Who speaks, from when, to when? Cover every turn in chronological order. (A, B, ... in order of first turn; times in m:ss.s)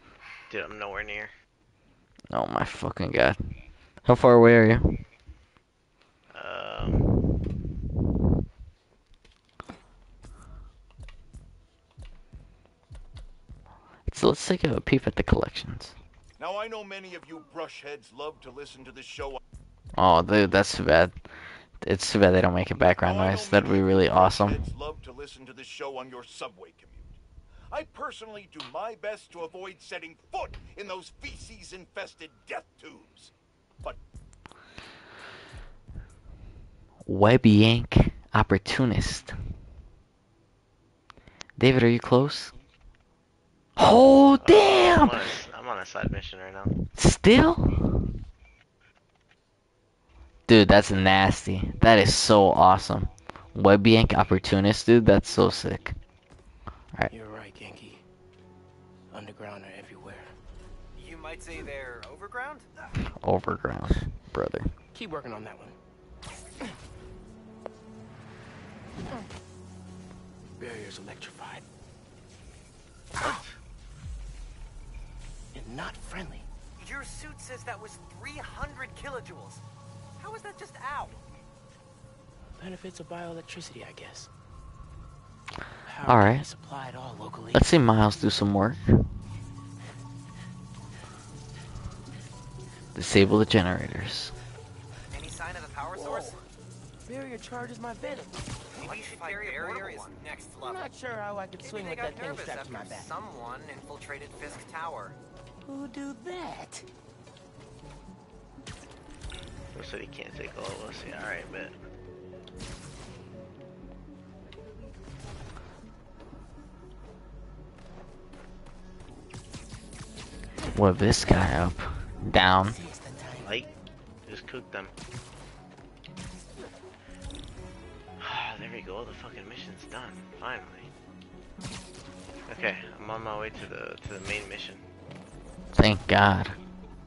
0:00.5-0:01.3 A
0:02.3-0:03.4 B
0:04.0-0:05.0 B
0:06.3-0:07.1 A
0:14.1-0:15.9 B
0:16.4-0:19.4 C
0:20.0-0:21.2 B
0:21.8-0:24.6 B
0:23.0-0:27.2 C
0:27.7-0:34.0 C
0:37.0-0:39.3 B
0:41.6-0:42.5 B
0:43.8-0:45.3 B
0:44.4-0:46.8 A
0:46.9-0:48.0 B
0:50.5-0:56.0 B
0:57.1-0:58.0 D
0:59.1-1:00.3 D
1:00.9-1:02.7 E
1:03.1-1:04.7 B
1:04.9-1:05.8 D
1:10.6-1:11.6 D
1:13.2-1:13.5 D
1:15.5-1:16.5 D
1:16.8-1:19.6 E
1:20.2-1:21.2 E
1:22.6-1:24.3 D
1:25.8-1:27.6 D
1:26.0-1:26.4 B
1:27.5-1:29.1 B
1:32.9-1:34.3 B
1:35.1-1:36.4 E
1:35.9-1:36.4 D
1:37.0-1:38.5 D
1:38.7-1:40.8 E
1:40.6-1:43.1 D
1:41.6-1:45.2 E
1:45.6-1:46.9 D
1:49.7-1:51.7 A
2:00.7-2:02.8 B
2:02.6-2:03.5 D
2:03.4-2:03.7 A
2:04.2-2:04.9 A
2:08.2-2:10.9 A
2:12.5-2:14.8 A
2:15.7-2:16.6 B